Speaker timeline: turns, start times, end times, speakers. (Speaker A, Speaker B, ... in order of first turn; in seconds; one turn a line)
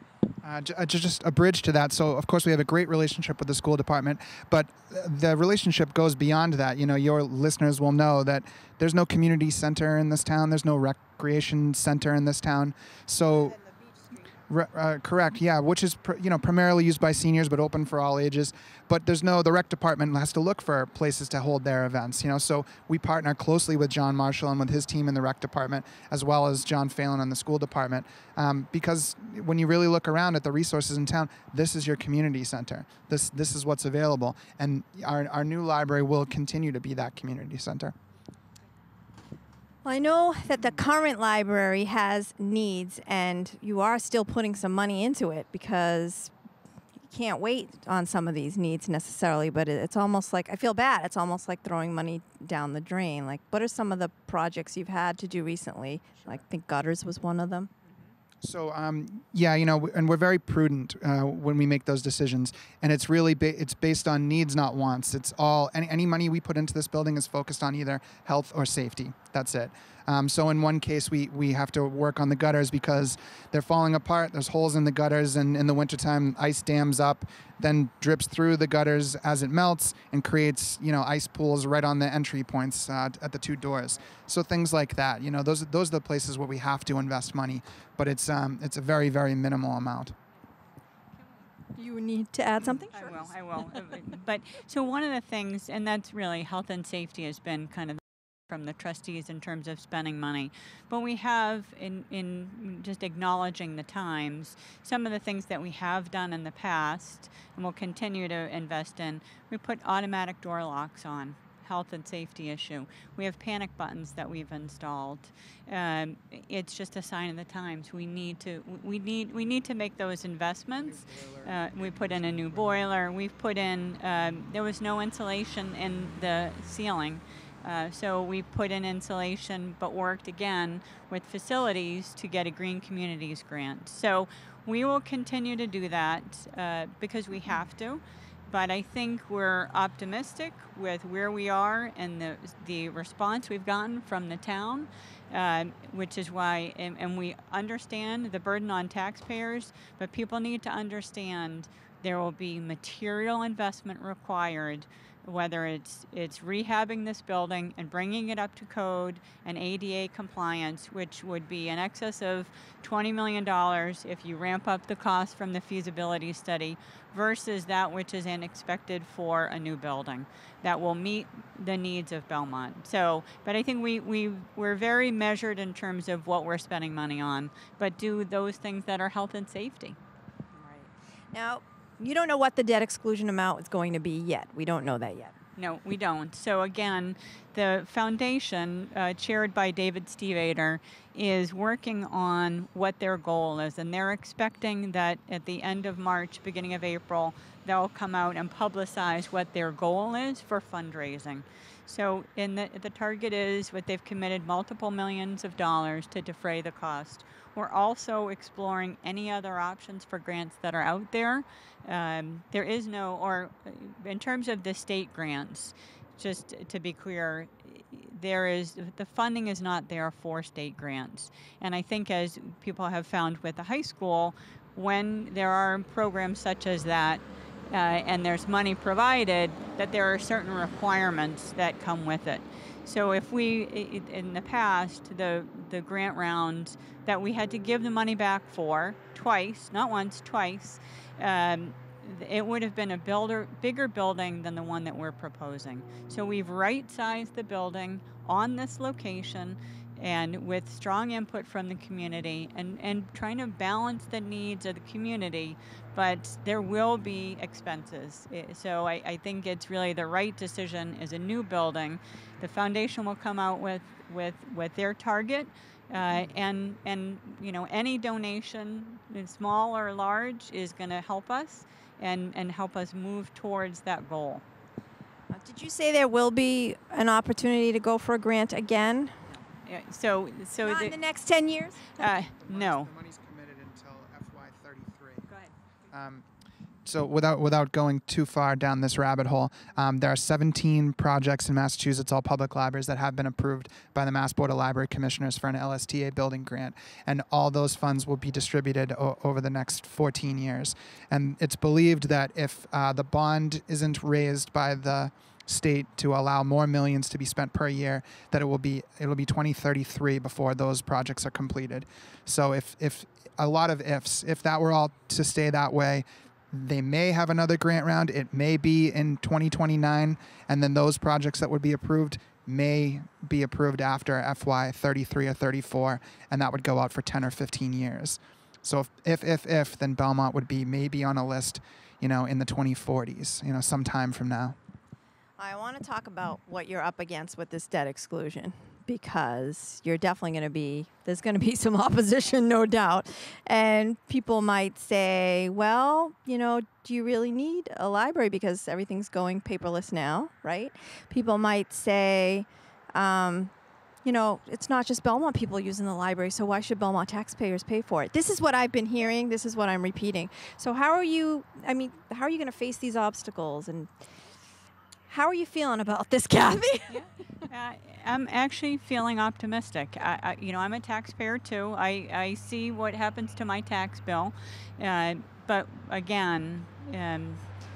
Speaker A: 0.4-13.6
Speaker B: 13.6-14.2
Speaker A: 14.5-38.0
Speaker B: 39.9-46.3
Speaker B: 47.1-57.7
Speaker A: 58.4-90.2
Speaker B: 91.8-93.1
Speaker C: 92.9-180.0
Speaker A: 120.8-122.9
Speaker B: 180.5-185.4
Speaker C: 185.6-274.4
Speaker B: 275.3-279.2
Speaker C: 279.3-281.0
Speaker B: 280.6-282.1
Speaker C: 282.0-282.9
Speaker A: 282.4-285.3
Speaker C: 285.3-285.5
Speaker A: 285.9-286.2
Speaker A: 286.9-334.6
Speaker B: 335.4-353.5
Speaker B: 354.0-363.9
Speaker B: 365.1-367.0
Speaker C: 366.9-377.4